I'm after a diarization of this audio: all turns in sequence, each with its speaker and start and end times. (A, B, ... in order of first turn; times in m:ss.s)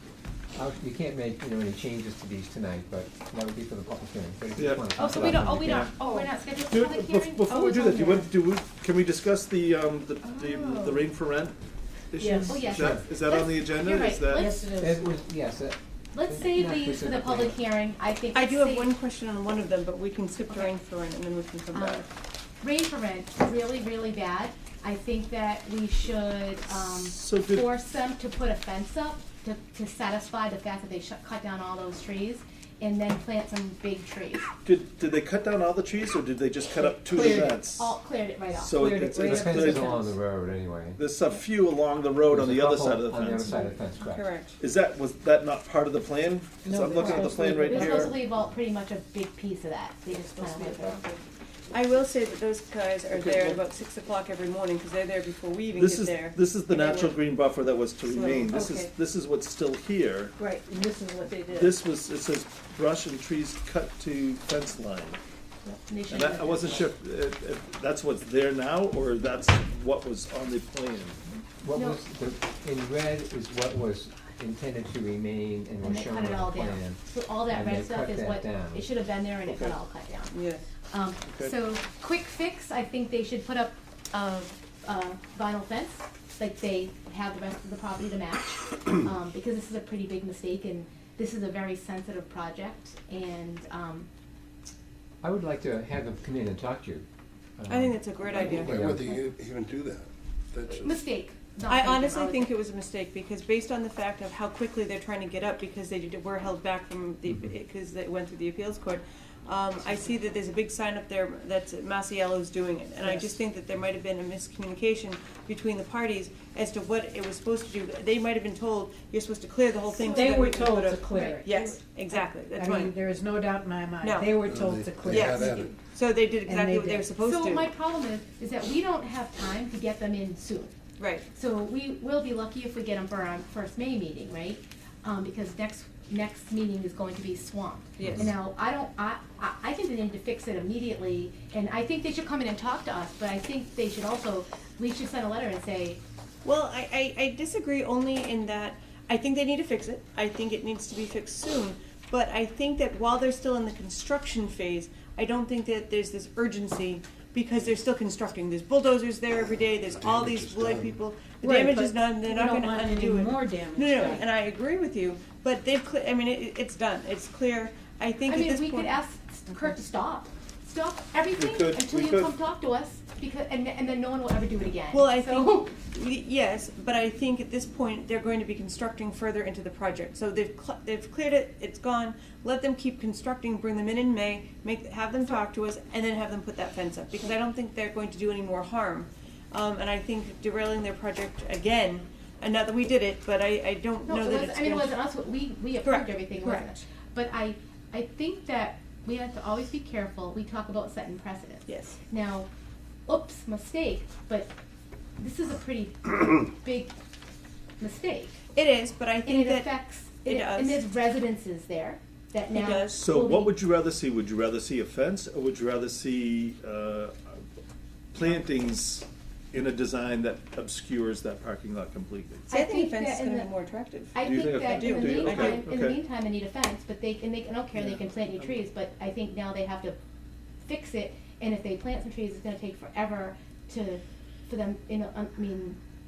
0:00.6-0:05.9 A
0:04.6-0:05.4 B
0:05.0-0:08.3 C
0:06.0-0:06.3 D
0:06.6-0:11.6 B
0:10.4-0:11.0 C
0:12.1-0:14.6 B
0:12.2-0:12.6 D
0:12.5-0:14.8 C
0:12.7-0:13.0 A
0:14.3-0:15.1 D
0:14.8-0:17.6 A
0:16.1-0:18.9 C
0:18.3-0:22.1 E
0:21.7-0:22.0 C
0:22.6-0:34.5 C
0:26.8-0:27.7 B
0:34.6-0:38.0 B
0:37.1-0:38.8 C
0:37.1-0:37.6 D
0:38.5-0:40.1 B
0:38.7-0:40.1 D
0:39.2-0:41.0 A
0:41.0-0:43.7 B
0:42.3-0:44.3 A
0:44.1-0:44.6 E
0:44.6-0:48.2 B
0:46.6-0:48.2 D
0:47.0-0:51.0 C
0:50.3-0:51.2 D
0:51.7-0:57.2 E
0:53.1-0:53.6 B
0:55.8-1:00.3 B
0:58.0-0:58.7 E
0:58.5-0:58.9 D
1:00.4-1:01.8 D
1:01.5-1:05.2 B
1:05.6-1:06.8 C
1:06.1-1:11.2 B
1:11.6-1:18.9 A
1:11.7-1:12.0 C
1:15.8-1:20.4 C
1:19.5-1:19.8 B
1:20.3-1:20.6 E
1:20.9-1:34.1 C
1:21.3-1:21.5 B
1:35.2-1:37.1 A
1:37.6-1:39.2 A
1:37.7-1:38.8 E
1:38.3-1:41.1 F
1:40.8-1:42.5 C
1:41.7-2:03.0 E
1:53.0-1:53.4 D
1:59.9-2:05.8 D
2:00.1-2:01.5 C
2:04.0-2:04.4 E
2:04.4-2:05.7 F
2:05.0-2:07.7 E
2:06.4-2:07.2 D
2:07.2-2:10.7 C
2:11.0-2:11.3 E
2:11.3-2:26.0 C
2:18.0-2:18.3 E
2:26.4-2:49.0 E
2:39.9-2:41.0 F
2:41.4-2:44.3 D
2:48.3-2:55.7 C
2:51.4-2:52.3 B
2:54.9-3:15.1 E
3:14.1-3:22.5 C
3:15.8-3:16.8 E
3:21.7-3:22.0 E
3:23.1-3:24.5 C
3:25.2-3:26.9 C
3:27.8-3:28.4 C
3:28.6-3:30.9 E
3:29.2-3:33.6 C
3:32.5-3:33.0 E
3:32.9-3:37.4 B
3:38.1-3:42.5 B
3:42.5-3:43.5 C
3:42.5-3:45.7 E
3:44.1-3:50.0 C
3:44.2-3:46.0 B
3:50.6-3:55.8 C